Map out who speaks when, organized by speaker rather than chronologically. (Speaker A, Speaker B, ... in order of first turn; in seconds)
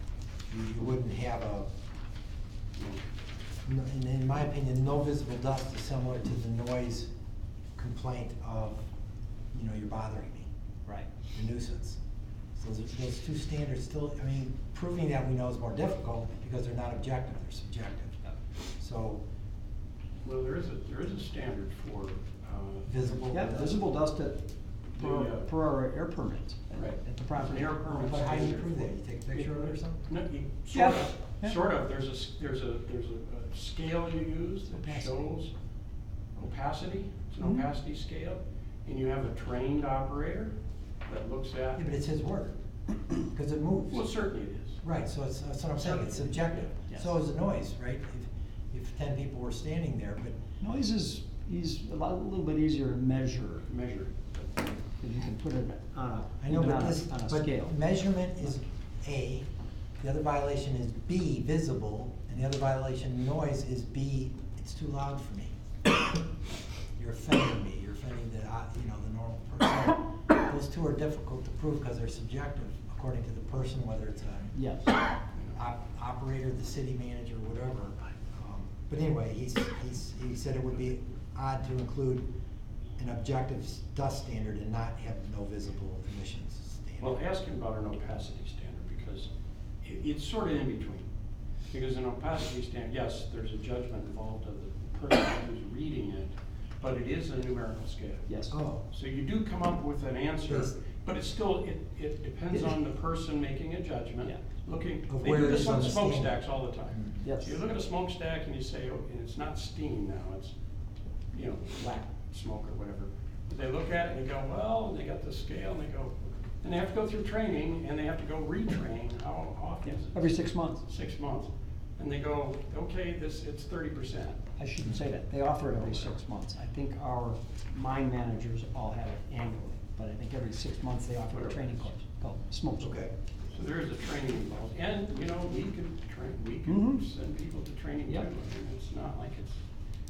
Speaker A: 0.5-1.7, 3.6-7.1, 7.8-8.9, 9.5-10.5, 11.3-12.0, 12.6-18.2, 18.8-19.2, 22.9-23.8, 27.8-30.0, 41.8-42.5, 43.1-44.0, 44.8-50.4, 56.4-59.5, 60.0-65.5, 67.0-74.6, 75.5-82.3, 83.0-87.2, 98.5-98.8, 100.5-100.7, 105.1-107.2, 132.8-133.1
Speaker B: 20.2-23.7, 24.9-25.5, 26.7-35.5, 36.3-40.5, 41.1-41.9, 43.9-44.8, 46.2-46.7, 53.7-54.8, 87.0-89.3, 89.8-91.1, 91.7-98.3, 98.9-110.5, 111.3-124.4, 125.7-126.1, 131.3-131.8, 133.5-139.6
Speaker C: 23.3-27.8, 30.7-31.6, 34.7-35.2, 45.9-46.2, 50.6-53.7, 55.0-57.8, 74.5-74.9, 98.3-98.6, 107.2-107.6, 119.8-120.8, 124.6-133.0, 136.7-137.0